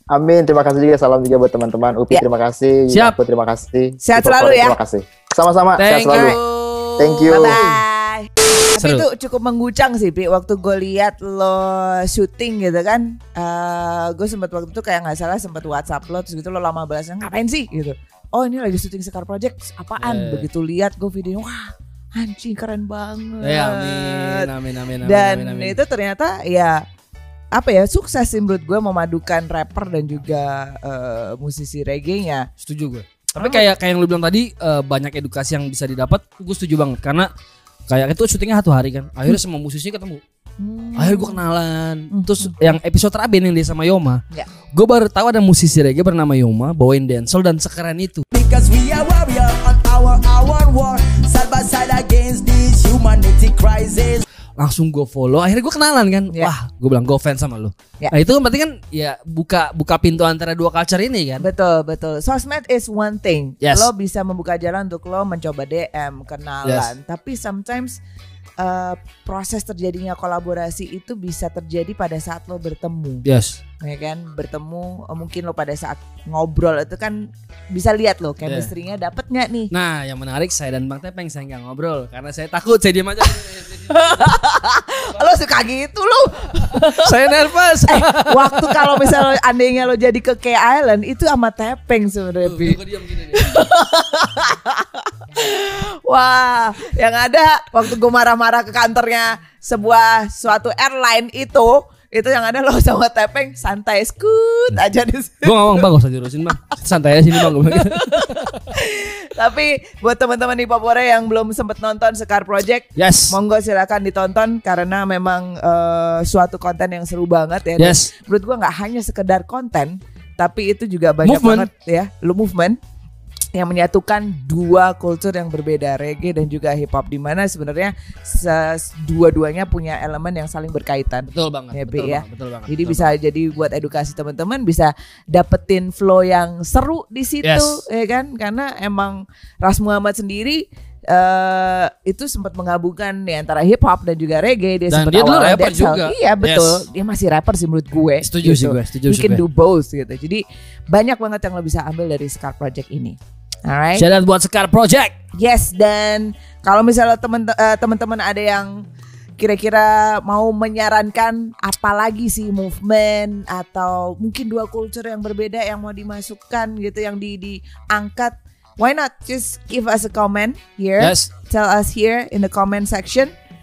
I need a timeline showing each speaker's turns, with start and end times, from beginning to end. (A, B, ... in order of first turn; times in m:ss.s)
0:00.1-0:06.4 A
0:04.0-0:04.8 B
0:05.8-0:07.7 C
0:07.0-0:07.8 A
0:07.3-0:24.5 B
0:08.8-0:09.1 C
0:20.0-0:20.5 C
0:23.4-0:25.8 C
0:25.0-0:26.8 B
0:27.6-0:32.5 B
0:32.6-0:37.3 C
0:33.4-0:33.7 B
0:37.9-0:40.2 C
0:40.6-0:41.4 B
0:41.0-0:44.2 C
0:42.1-0:42.6 B
0:44.7-0:48.2 C
0:48.3-0:54.2 D
0:54.6-1:01.5 C
1:01.4-1:08.0 B
1:03.6-1:03.9 C
1:06.6-1:06.9 C
1:08.6-1:13.3 B
1:13.2-1:13.6 C
1:13.8-1:19.7 B
1:19.7-1:24.2 C
1:23.9-1:27.1 B
1:26.8-1:29.2 C
1:27.9-1:32.8 B
1:32.4-1:33.6 C
1:33.3-1:45.9 B
1:45.4-1:48.6 C
1:47.4-2:02.8 B
1:53.0-1:53.4 C
1:57.8-1:58.1 C
2:01.2-2:01.7 C
2:03.6-2:34.1 B
2:11.3-2:13.1 C
2:17.4-2:17.8 C
2:24.9-2:26.8 C
2:28.2-2:29.4 C
2:34.0-2:35.2 C
2:35.4-2:38.8 B
2:39.4-2:53.3 B
2:51.0-2:51.3 C